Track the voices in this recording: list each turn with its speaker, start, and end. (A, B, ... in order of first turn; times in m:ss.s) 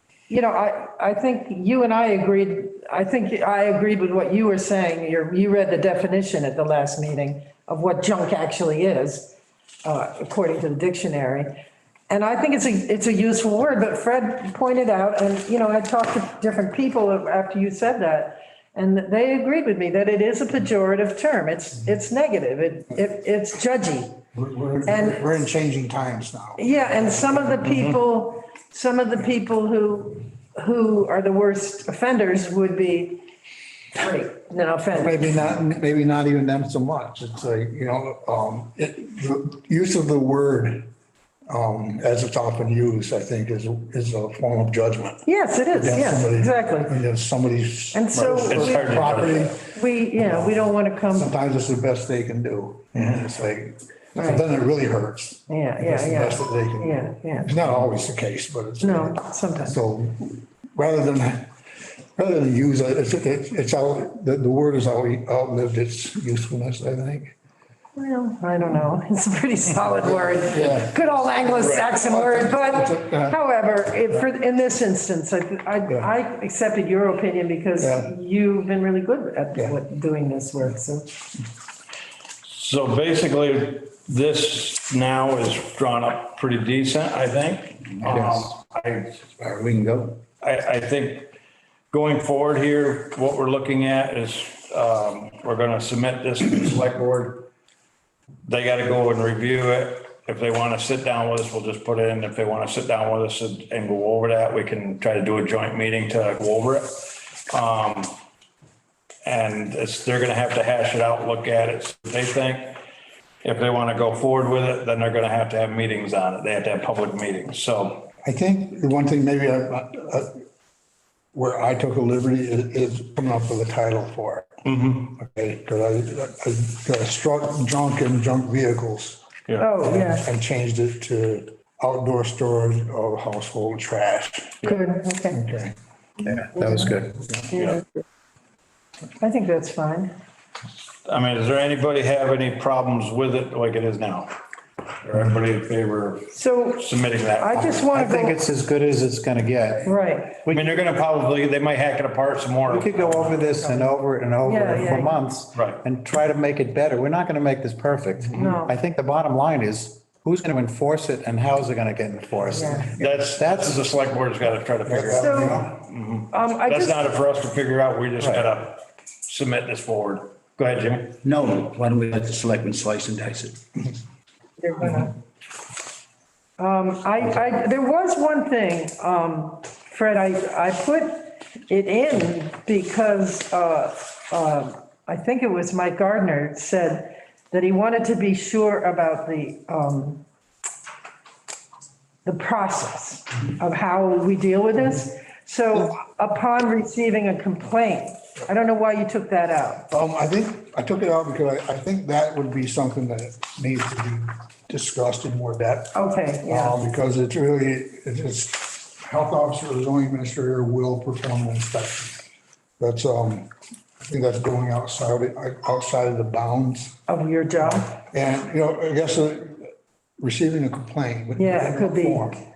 0:00.3-0:11.5 A
0:12.1-0:24.2 A
0:24.4-0:26.7 B
0:24.8-0:25.2 A
0:26.6-0:33.3 A
0:34.0-0:35.2 A
0:35.0-0:40.9 B
0:41.5-0:49.6 B
0:45.3-0:46.9 A
0:47.9-0:51.3 A
0:48.4-0:49.5 C
0:51.1-1:01.5 B
0:54.2-0:54.4 A
0:55.5-0:57.5 A
0:58.8-0:59.8 A
1:02.2-1:07.4 B
1:08.0-1:21.2 A
1:10.0-1:13.4 B
1:11.6-1:11.9 C
1:17.8-1:18.1 B
1:22.4-1:29.0 C
1:29.4-1:30.1 D
1:29.5-1:30.0 E
1:30.4-1:31.3 C
1:31.9-1:37.5 C
1:38.4-1:48.2 C
1:49.2-1:52.8 C
1:53.4-1:58.1 C
1:58.2-2:00.4 B
2:01.3-2:04.5 B
2:04.6-2:05.1 C
2:05.1-2:09.2 B
2:09.6-2:10.2 A
2:09.8-2:14.7 B
2:14.6-2:15.4 A
2:15.3-2:15.8 B
2:16.2-2:17.2 D
2:17.2-2:17.5 B
2:17.5-2:17.8 C
2:19.2-2:20.1 A
2:21.1-2:24.3 C
2:25.0-2:27.9 C
2:26.3-2:28.4 A
2:27.9-2:30.8 D
2:29.8-2:30.4 A
2:30.5-2:33.4 C
2:32.7-2:43.8 D
2:33.5-2:33.9 A
2:34.4-2:35.2 A
2:35.5-2:35.8 C
2:38.3-2:38.7 A
2:42.5-2:43.0 A
2:43.0-2:51.2 C
2:44.9-2:45.7 B
2:44.9-2:45.6 D
2:45.2-2:45.7 A
2:46.3-2:47.1 A
2:51.2-2:53.6 E
2:54.6-2:55.2 A
2:56.6-3:10.2 A
3:12.2-3:19.9 A
3:19.9-3:32.2 B
3:26.0-3:26.8 A
3:32.8-3:33.5 B
3:34.0-3:37.0 B
3:37.1-3:38.0 A
3:37.6-3:42.4 B
3:41.4-3:42.4 A